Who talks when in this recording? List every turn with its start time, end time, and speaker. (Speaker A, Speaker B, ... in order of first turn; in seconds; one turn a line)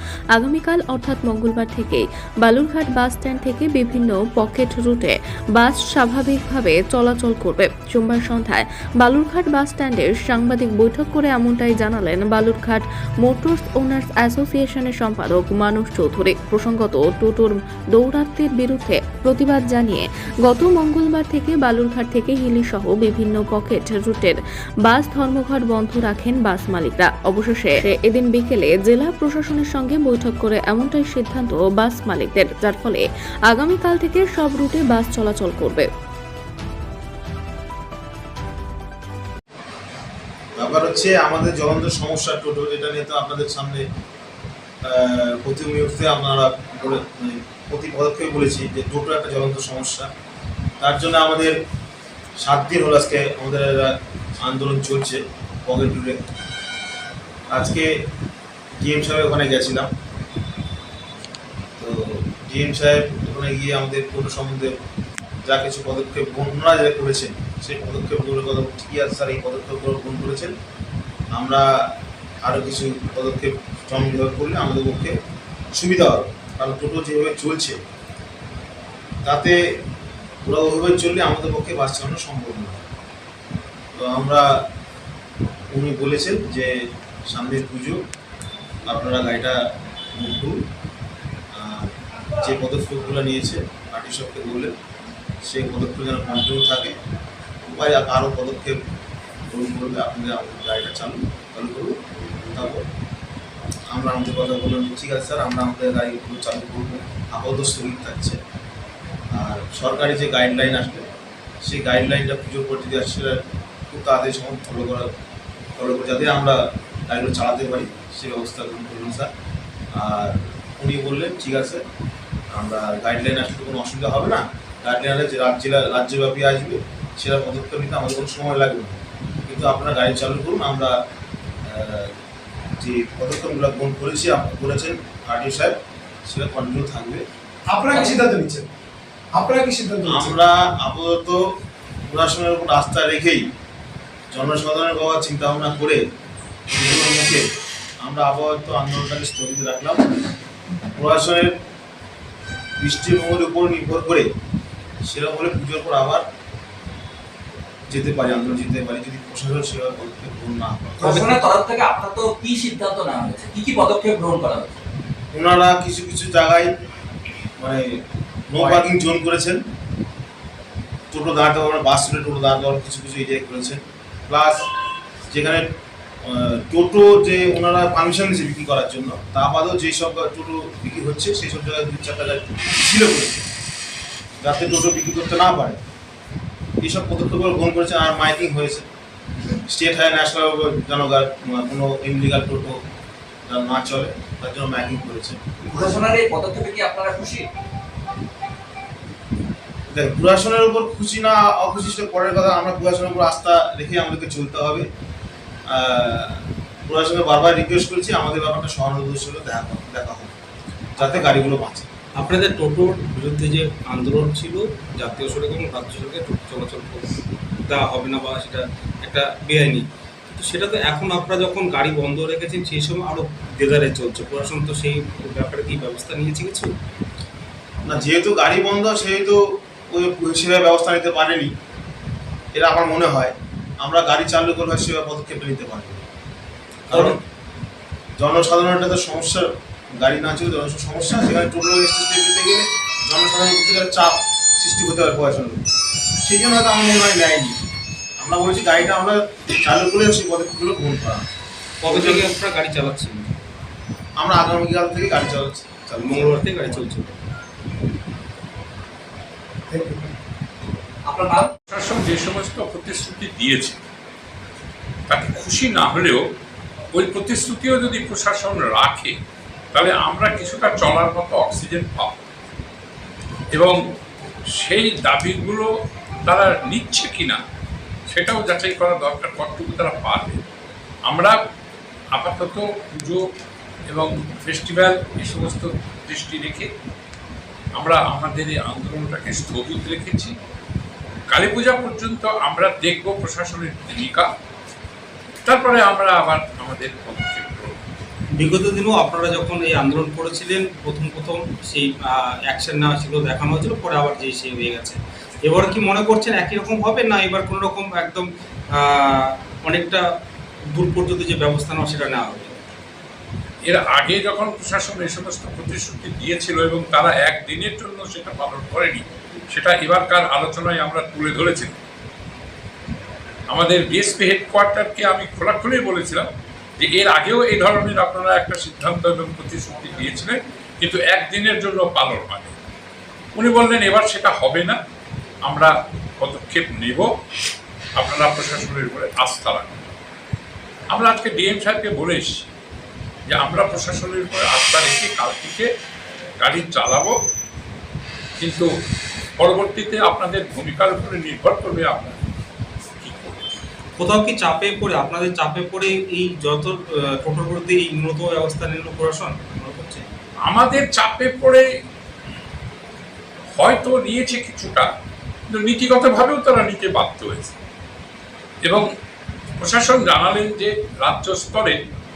Speaker A: 0.3-35.9
Speaker B: 40.5-43.8
Speaker B: 44.8-50.1
Speaker B: 50.8-51.6
Speaker B: 52.4-56.2
Speaker B: 57.5-58.0
Speaker B: 58.8-59.9
Speaker B: 61.8-64.7
Speaker B: 65.4-70.5
Speaker B: 71.3-71.8
Speaker B: 72.4-75.1
Speaker B: 75.7-77.8
Speaker B: 79.2-79.6
Speaker B: 80.4-82.8
Speaker B: 84.0-84.5
Speaker B: 85.7-86.7
Speaker B: 87.3-88.0
Speaker B: 88.8-89.6
Speaker B: 90.1-90.6
Speaker B: 91.5-94.7
Speaker B: 95.4-96.9
Speaker B: 97.6-98.8
Speaker B: 99.5-102.8
Speaker B: 103.9-108.4
Speaker B: 109.3-111.0
Speaker B: 111.6-115.1
Speaker B: 115.8-119.3
Speaker B: 119.9-121.8
Speaker B: 122.5-130.9
Speaker B: 131.6-132.1
Speaker B: 132.8-135.8
Speaker B: 136.3-137.2
Speaker C: 137.7-138.7
Speaker C: 139.3-140.3
Speaker B: 140.1-141.4
Speaker B: 142.1-143.4
Speaker B: 144.3-146.0
Speaker B: 146.7-147.4
Speaker B: 148.0-150.1
Speaker B: 150.9-151.6
Speaker B: 152.8-154.3
Speaker B: 155.0-156.2
Speaker B: 157.9-161.3
Speaker C: 161.0-161.4
Speaker D: 161.5-164.7
Speaker B: 165.3-166.7
Speaker B: 167.6-169.6
Speaker C: 168.6-168.9
Speaker B: 171.1-174.6
Speaker B: 175.3-175.7
Speaker B: 176.2-183.4
Speaker B: 184.4-185.8
Speaker B: 186.8-188.9
Speaker B: 189.7-192.8
Speaker B: 193.5-195.8
Speaker D: 195.8-197.4
Speaker B: 199.9-204.9
Speaker B: 205.7-210.3
Speaker E: 211.0-211.5
Speaker B: 211.0-211.9
Speaker E: 212.2-217.1
Speaker E: 217.7-226.7
Speaker B: 227.8-231.5
Speaker B: 232.5-236.0
Speaker E: 236.9-237.2
Speaker B: 236.9-237.2
Speaker B: 238.2-245.6
Speaker B: 246.2-247.6
Speaker B: 248.2-251.2
Speaker E: 251.8-253.3
Speaker B: 251.9-252.2
Speaker B: 254.2-256.9
Speaker E: 256.0-257.1
Speaker C: 259.7-260.1
Speaker D: 261.1-261.5
Speaker F: 261.7-263.8
Speaker F: 265.1-266.2
Speaker F: 266.9-269.1
Speaker F: 269.7-272.2
Speaker F: 274.6-275.7
Speaker F: 276.3-277.4
Speaker F: 278.1-280.4
Speaker F: 281.1-281.4
Speaker F: 282.1-283.2
Speaker F: 283.9-286.7
Speaker F: 287.8-290.3
Speaker F: 291.3-294.3
Speaker F: 295.4-297.8
Speaker E: 298.4-310.0
Speaker E: 310.7-312.6
Speaker F: 313.6-321.8
Speaker F: 323.5-326.2
Speaker F: 326.8-332.5
Speaker F: 333.4-334.8
Speaker F: 335.5-337.1
Speaker F: 338.0-339.8
Speaker F: 340.9-342.3
Speaker F: 343.3-345.7
Speaker F: 346.4-347.1
Speaker F: 348.4-348.7
Speaker F: 349.4-352.2
Speaker F: 353.0-353.5
Speaker E: 354.0-360.1
Speaker F: 360.5-361.6
Speaker F: 363.6-364.9
Speaker F: 365.5-367.5
Speaker F: 369.6-371.8